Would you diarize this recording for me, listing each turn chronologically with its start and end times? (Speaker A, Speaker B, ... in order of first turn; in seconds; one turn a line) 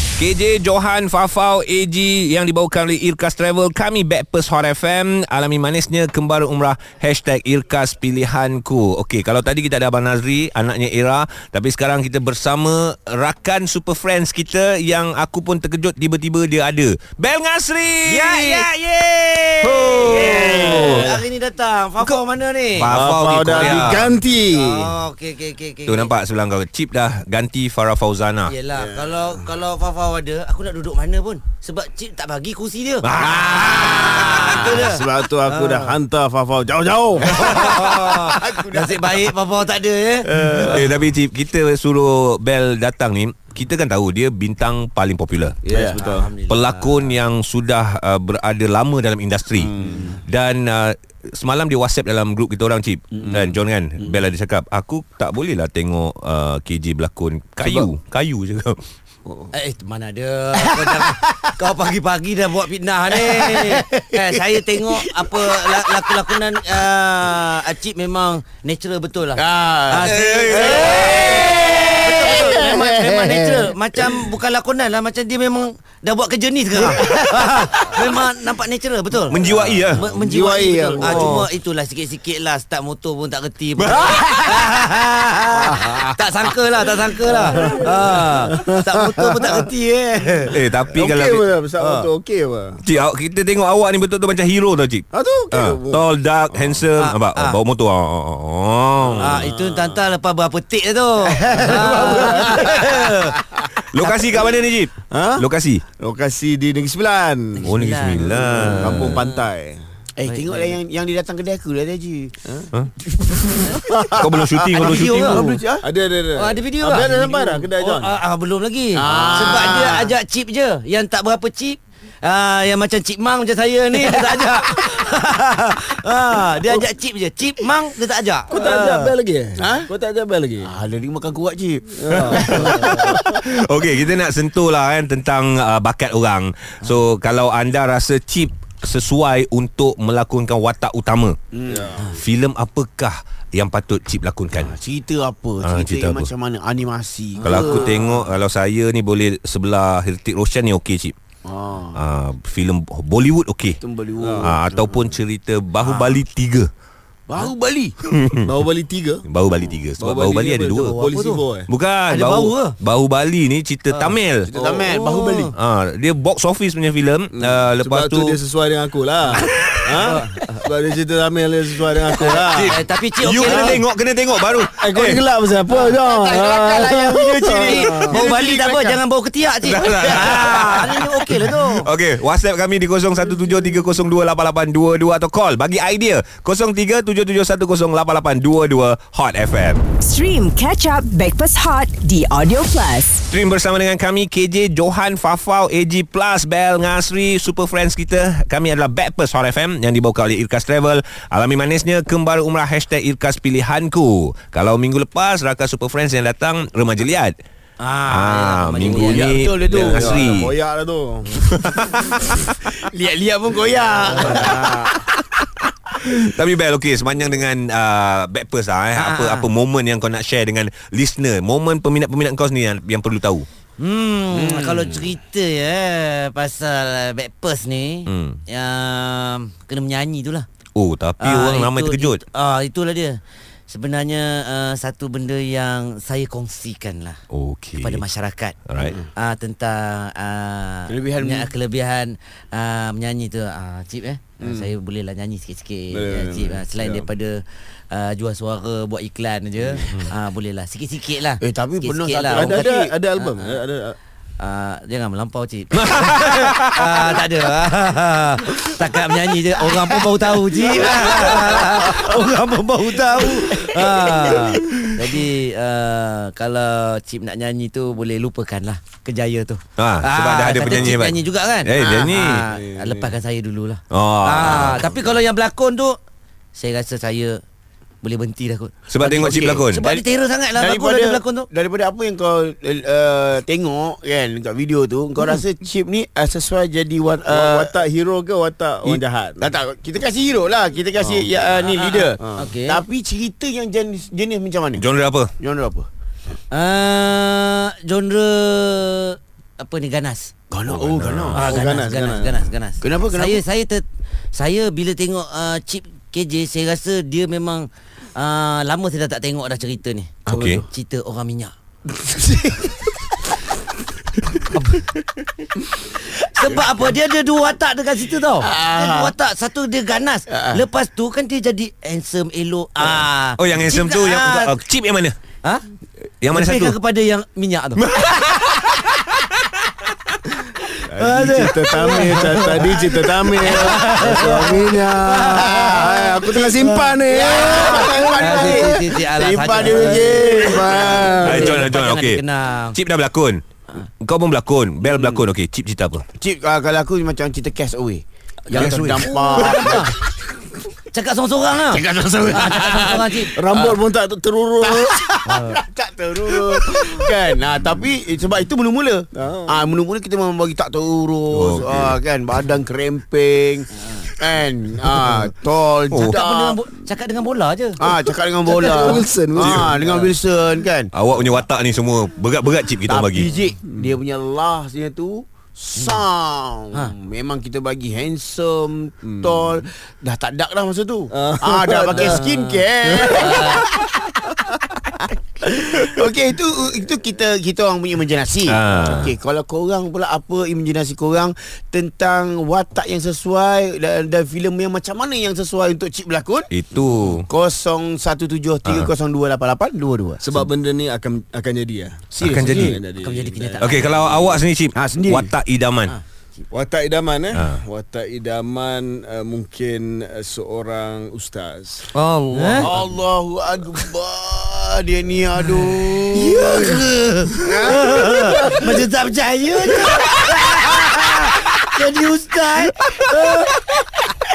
Speaker A: 0.2-21.1
Speaker B: 18.0-18.8
Speaker B: 19.4-22.9
Speaker C: 20.1-21.2
Speaker A: 22.0-24.1
Speaker C: 22.9-24.9
Speaker B: 23.6-23.9
Speaker B: 24.5-26.1
Speaker A: 25.9-28.5
Speaker B: 28.5-33.1
Speaker D: 28.7-29.2
Speaker A: 33.0-34.6
Speaker D: 33.2-34.8
Speaker B: 33.8-36.0
Speaker C: 34.3-37.8
Speaker D: 37.2-39.2
Speaker B: 37.3-40.3
Speaker C: 40.3-41.0
Speaker D: 40.4-40.9
Speaker A: 40.5-45.6
Speaker C: 45.6-46.3
Speaker D: 45.7-46.0
Speaker B: 45.7-47.2
Speaker A: 46.5-49.7
Speaker C: 49.7-50.1
Speaker D: 49.7-50.2
Speaker A: 50.3-58.8
Speaker D: 53.2-54.1
Speaker C: 57.6-57.9
Speaker B: 59.5-90.5
Speaker D: 69.3-72.7
Speaker A: 70.0-71.4
Speaker C: 72.2-73.7
Speaker A: 79.3-80.0
Speaker C: 79.5-81.4
Speaker A: 81.0-81.5
Speaker A: 83.8-84.6
Speaker C: 83.9-84.3
Speaker C: 87.4-89.6
Speaker A: 90.5-91.5
Speaker C: 90.9-92.8
Speaker B: 91.8-92.1
Speaker A: 92.8-99.5
Speaker C: 95.1-96.8
Speaker B: 97.0-97.6
Speaker B: 99.2-103.4
Speaker C: 101.2-102.8
Speaker D: 101.5-102.4
Speaker A: 103.9-105.8
Speaker B: 104.0-104.4
Speaker C: 105.1-105.5
Speaker C: 106.0-109.8
Speaker B: 107.6-109.5
Speaker A: 107.7-109.2
Speaker D: 110.2-112.3
Speaker B: 110.3-110.8
Speaker C: 113.3-114.7
Speaker A: 114.2-115.5
Speaker B: 114.7-115.4
Speaker D: 114.9-115.9
Speaker C: 115.4-118.2
Speaker B: 116.3-129.1
Speaker D: 119.0-120.1
Speaker C: 128.5-130.7
Speaker D: 129.6-129.9
Speaker D: 130.6-132.8
Speaker C: 131.9-133.3
Speaker A: 132.3-141.3
Speaker D: 141.5-142.0
Speaker C: 141.7-142.2
Speaker A: 142.1-144.7
Speaker D: 144.5-147.9
Speaker A: 145.6-146.3
Speaker A: 147.4-151.1
Speaker D: 151.4-152.0
Speaker A: 151.9-153.8
Speaker D: 153.8-155.2
Speaker C: 154.2-154.5
Speaker A: 154.4-156.7
Speaker D: 155.8-156.1
Speaker D: 157.3-157.9
Speaker A: 158.1-158.4
Speaker C: 158.4-159.2
Speaker A: 159.3-161.0
Speaker C: 160.0-161.7
Speaker B: 160.9-161.4
Speaker A: 161.7-164.5
Speaker B: 162.1-162.8
Speaker D: 164.5-165.5
Speaker C: 164.5-164.9
Speaker B: 164.9-165.5
Speaker A: 165.5-168.4
Speaker C: 167.3-172.8
Speaker B: 170.0-170.6
Speaker B: 172.2-173.8
Speaker A: 172.2-175.2
Speaker C: 173.4-173.8
Speaker C: 174.8-178.2
Speaker D: 175.7-179.0
Speaker B: 177.6-181.9
Speaker A: 179.6-189.8
Speaker E: 190.0-193.2
Speaker A: 193.3-207.3
Speaker B: 207.8-209.5
Speaker A: 208.1-210.5
Speaker D: 208.9-210.4
Speaker C: 209.7-211.5
Speaker A: 211.3-212.5
Speaker D: 212.6-214.9
Speaker C: 214.2-214.8
Speaker A: 214.2-223.5
Speaker B: 214.2-214.5
Speaker B: 218.9-219.5
Speaker B: 223.8-230.4
Speaker D: 224.3-225.1
Speaker A: 228.1-228.4
Speaker A: 230.7-232.2
Speaker B: 231.2-237.2
Speaker A: 237.3-238.0
Speaker B: 237.8-238.6
Speaker A: 238.7-239.0
Speaker B: 239.1-253.6
Speaker D: 240.9-241.5
Speaker D: 244.4-244.7
Speaker C: 245.9-247.1
Speaker D: 251.4-252.8
Speaker C: 252.3-254.0
Speaker B: 254.4-276.0
Speaker A: 255.8-257.0
Speaker A: 269.8-272.4
Speaker D: 271.8-272.2
Speaker C: 272.4-273.1
Speaker A: 273.9-275.0
Speaker B: 276.5-277.4
Speaker B: 278.0-281.5
Speaker A: 278.9-279.8
Speaker D: 279.8-287.7
Speaker C: 287.3-289.5
Speaker D: 288.8-294.8
Speaker C: 291.0-291.3
Speaker B: 291.6-292.8
Speaker A: 294.8-295.3
Speaker D: 295.4-295.9
Speaker B: 296.5-300.3
Speaker D: 300.5-301.4
Speaker A: 300.7-301.4
Speaker C: 301.3-302.5
Speaker B: 301.3-311.5
Speaker D: 302.8-303.4
Speaker A: 310.2-310.6
Speaker D: 310.3-310.5
Speaker D: 311.9-312.9
Speaker B: 315.8-324.6
Speaker D: 318.4-319.1
Speaker D: 320.3-320.6
Speaker A: 322.9-325.2
Speaker A: 326.2-326.8
Speaker B: 326.3-328.9
Speaker A: 327.8-329.0
Speaker B: 330.8-342.8
Speaker C: 330.9-338.9
Speaker D: 335.3-335.8
Speaker D: 337.1-341.3
Speaker C: 339.7-341.6
Speaker A: 341.2-342.2
Speaker A: 342.7-343.4
Speaker A: 344.0-346.1
Speaker D: 344.8-345.2
Speaker D: 346.2-349.9
Speaker A: 348.5-349.8
Speaker C: 348.6-349.6
Speaker B: 349.3-349.9
Speaker B: 350.9-353.3
Speaker D: 351.6-353.8
Speaker C: 353.3-355.0
Speaker D: 354.6-366.6
Speaker B: 355.3-355.6
Speaker C: 359.1-359.6
Speaker A: 361.3-362.0
Speaker A: 365.9-366.2
Speaker B: 366.0-367.8
Speaker D: 367.8-370.9
Speaker C: 367.9-370.1
Speaker A: 369.4-369.7
Speaker B: 369.8-370.1
Speaker A: 370.9-373.3
Speaker D: 372.9-384.0
Speaker C: 373.7-373.9
Speaker B: 375.8-376.0
Speaker C: 379.1-379.6
Speaker C: 381.1-382.2
Speaker B: 381.9-383.6
Speaker C: 382.8-383.6
Speaker D: 385.4-396.5
Speaker A: 388.4-389.1
Speaker A: 396.5-397.2
Speaker D: 397.1-400.5
Speaker A: 398.6-398.9
Speaker C: 400.2-403.8
Speaker D: 402.1-402.8
Speaker A: 402.2-402.8
Speaker B: 402.5-404.4
Speaker A: 403.6-405.9
Speaker D: 404.8-405.3
Speaker C: 406.5-411.9
Speaker D: 412.0-416.7
Speaker B: 412.3-412.7
Speaker B: 416.3-423.6
Speaker A: 416.4-416.7
Speaker D: 417.3-418.3
Speaker A: 420.0-420.7
Speaker A: 422.9-423.7